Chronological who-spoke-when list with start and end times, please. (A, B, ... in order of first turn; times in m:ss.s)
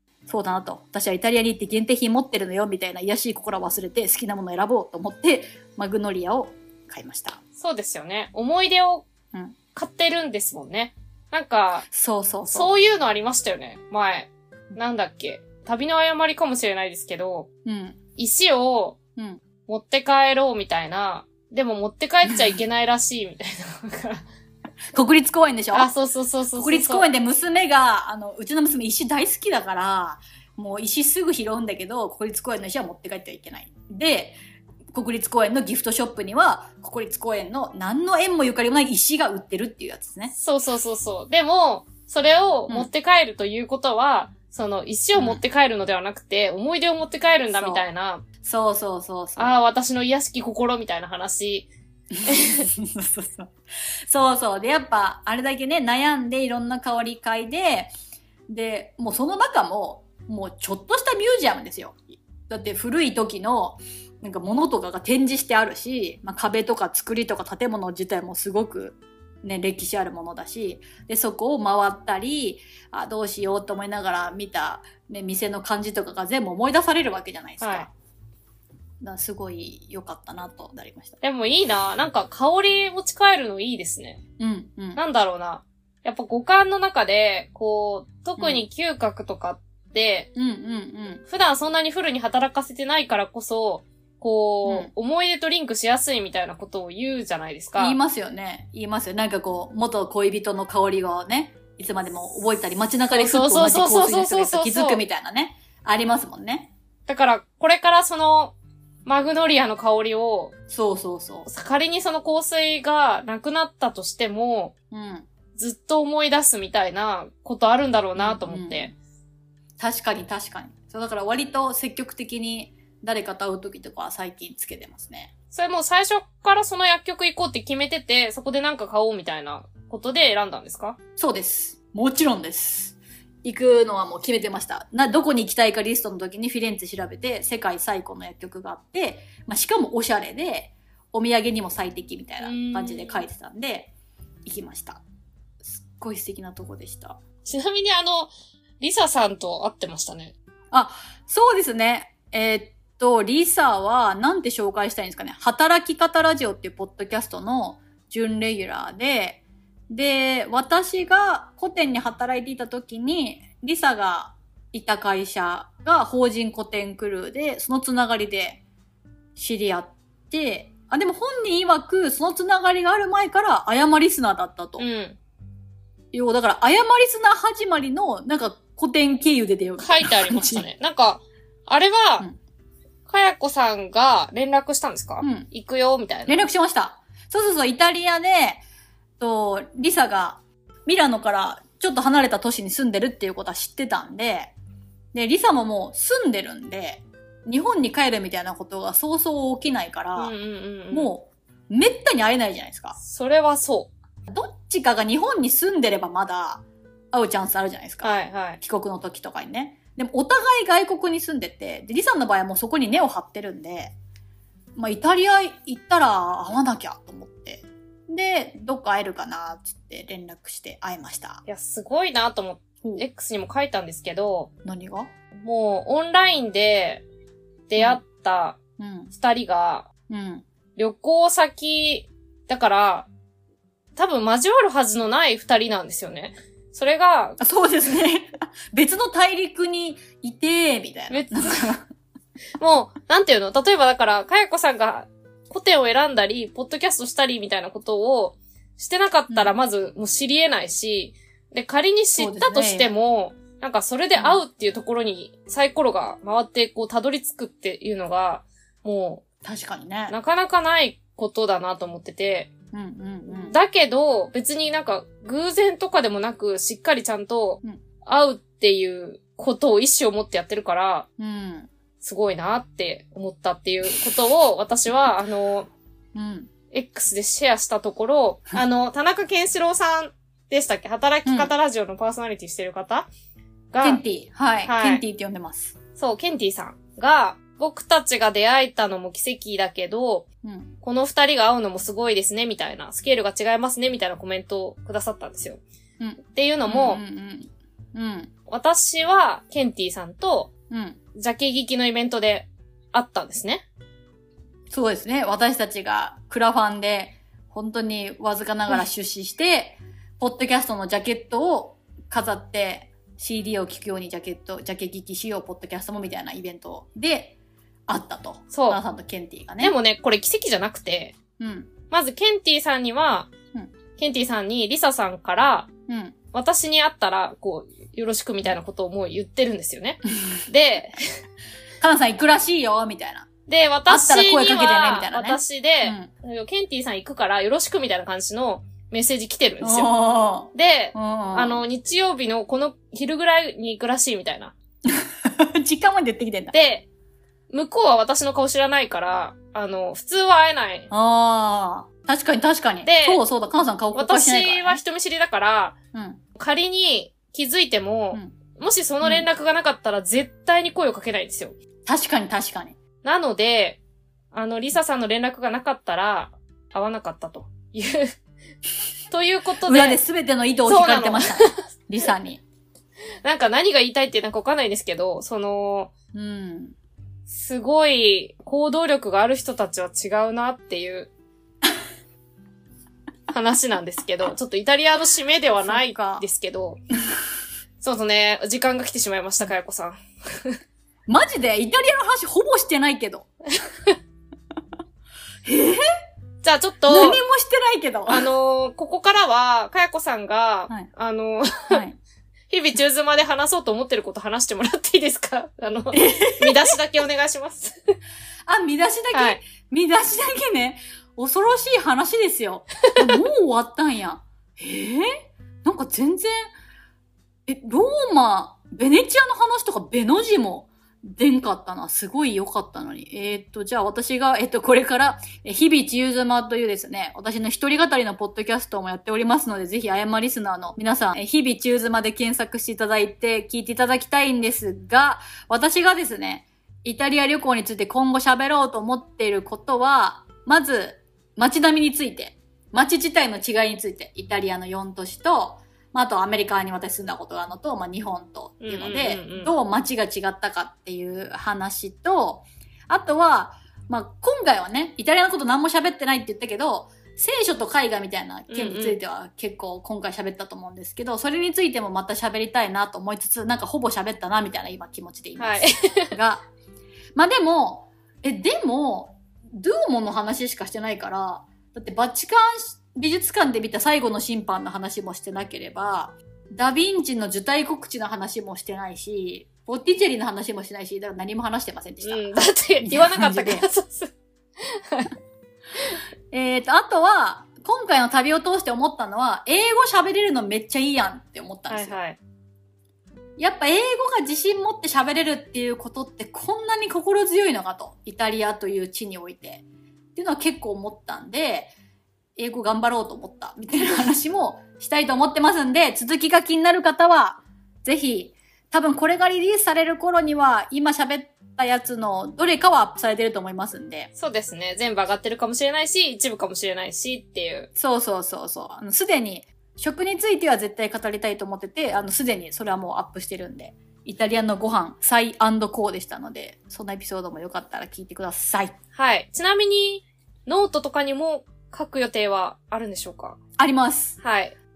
0:00.3-0:07.4 A
0:07.6-0:09.1 B
0:09.7-0:11.8 B
0:11.9-0:12.7 A
0:12.5-0:17.5 B
0:17.6-0:18.0 A
0:18.2-0:19.0 B
0:19.2-0:19.4 A
0:19.7-0:24.2 B
0:22.2-0:22.6 A
0:24.9-0:25.9 A
0:25.7-0:27.1 B
0:26.5-0:34.4 A
0:34.9-0:40.3 A
0:40.3-0:48.2 B
0:45.1-0:45.4 A
0:47.5-0:47.8 A
0:48.4-0:49.6 A
0:49.4-0:51.7 B
0:52.1-0:53.5 A
0:52.2-0:52.7 B
0:54.1-0:57.9 A
0:58.5-1:17.9 A
1:17.6-1:17.9 B
1:19.0-1:21.2 A
1:21.2-1:24.2 B
1:24.4-1:25.0 A
1:25.0-1:30.3 B
1:28.4-1:28.6 A
1:30.3-1:31.2 A
1:31.3-1:38.0 B
1:34.6-1:34.9 A
1:37.7-1:46.7 A
1:43.1-1:45.0 B
1:47.1-1:50.5 B
1:50.7-1:51.5 A
1:51.4-1:54.7 B
1:54.9-1:55.3 A
1:55.6-1:58.9 B
1:58.2-1:58.9 A
1:59.8-2:05.3 A
2:05.5-2:11.0 B
2:11.2-2:23.9 A
2:22.4-2:23.3 B
2:24.4-2:25.0 A
2:25.6-2:27.2 A
2:27.4-2:30.3 B
2:30.7-2:48.6 A
2:49.4-2:54.8 A
2:54.8-2:55.2 B
2:56.1-3:00.6 A
2:59.8-3:02.3 B
3:03.1-3:06.4 B
3:05.2-3:05.5 A
3:06.3-3:08.6 A
3:09.2-3:14.5 A
3:15.1-3:20.3 A
3:20.2-3:21.1 B
3:20.9-3:23.0 A
3:23.0-3:23.9 B
3:24.3-3:33.9 A
3:28.0-3:28.6 B
3:34.8-3:41.4 A
3:41.4-3:44.5 B
3:44.6-3:45.1 A
3:45.4-3:47.0 B
3:47.7-3:48.6 B
3:48.8-3:49.1 A
3:49.1-3:49.9 B
3:50.1-3:50.4 A
3:50.8-3:53.1 B
3:54.0-3:57.4 B
3:57.4-4:01.8 A
4:01.1-4:01.7 B
4:02.6-4:19.2 B
4:09.3-4:09.5 A
4:12.2-4:12.9 A
4:19.4-4:20.1 A
4:20.1-4:22.5 B
4:22.7-4:23.6 A
4:23.3-4:31.1 B
4:31.2-4:31.7 A
4:32.0-4:35.7 B
4:36.1-4:36.5 A
4:36.7-4:43.1 B
4:41.2-4:41.5 A
4:43.7-4:44.0 B
4:43.8-4:45.8 A
4:44.6-4:45.0 B
4:46.0-4:50.2 B
4:50.4-4:50.7 A
4:50.8-4:55.6 B
4:56.0-4:58.3 A
4:56.2-4:57.0 B
4:58.5-5:00.5 B
5:00.7-5:01.0 A
5:01.1-5:03.6 B
5:04.7-5:17.4 A
5:17.9-5:19.8 A
5:18.5-5:18.8 B
5:19.6-5:21.2 B
5:21.4-5:21.7 A
5:21.9-5:23.3 B
5:24.0-5:25.7 B
5:25.9-5:26.2 A
5:26.3-5:31.0 B
5:31.8-5:33.3 A
5:33.5-5:39.9 B
5:33.9-5:36.1 A
5:39.6-5:41.6 A
5:40.5-5:44.5 B
5:44.9-5:46.5 A
5:46.5-5:46.9 B
5:47.5-5:50.9 B
5:50.9-5:54.8 A
5:52.8-5:53.2 B
5:53.9-5:55.8 B
5:55.9-5:56.2 A
5:56.3-6:01.6 B
6:01.8-6:02.8 A
6:03.0-6:03.8 B
6:04.3-6:08.2 B
6:09.1-6:10.0 B
6:09.6-6:12.4 A
6:10.7-6:11.6 B
6:13.2-6:15.9 B
6:16.1-6:16.7 A
6:17.3-6:21.1 B
6:23.3-6:26.8 B
6:25.6-6:26.2 A
6:27.8-6:30.6 B
6:31.1-6:33.3 A
6:35.4-6:35.8 A
6:36.4-6:37.2 B
6:36.9-6:38.3 A
6:38.1-6:41.8 B
6:41.7-6:42.0 A
6:42.5-6:47.7 B
6:45.9-6:46.8 A
6:48.4-6:56.5 A
6:49.1-6:49.4 B
6:57.4-7:46.4 A
7:28.6-7:29.5 B
7:38.5-7:39.0 B
7:45.4-7:46.2 B
7:47.1-8:03.6 A
8:02.0-8:05.1 B
8:06.3-8:12.0 A
8:11.7-8:12.2 B
8:13.4-8:19.6 A
8:20.1-8:21.7 A
8:22.4-8:34.1 A
8:34.2-8:37.7 B
8:37.8-8:48.8 A
8:48.9-8:53.4 B
8:53.6-8:54.2 A
8:54.2-8:54.5 B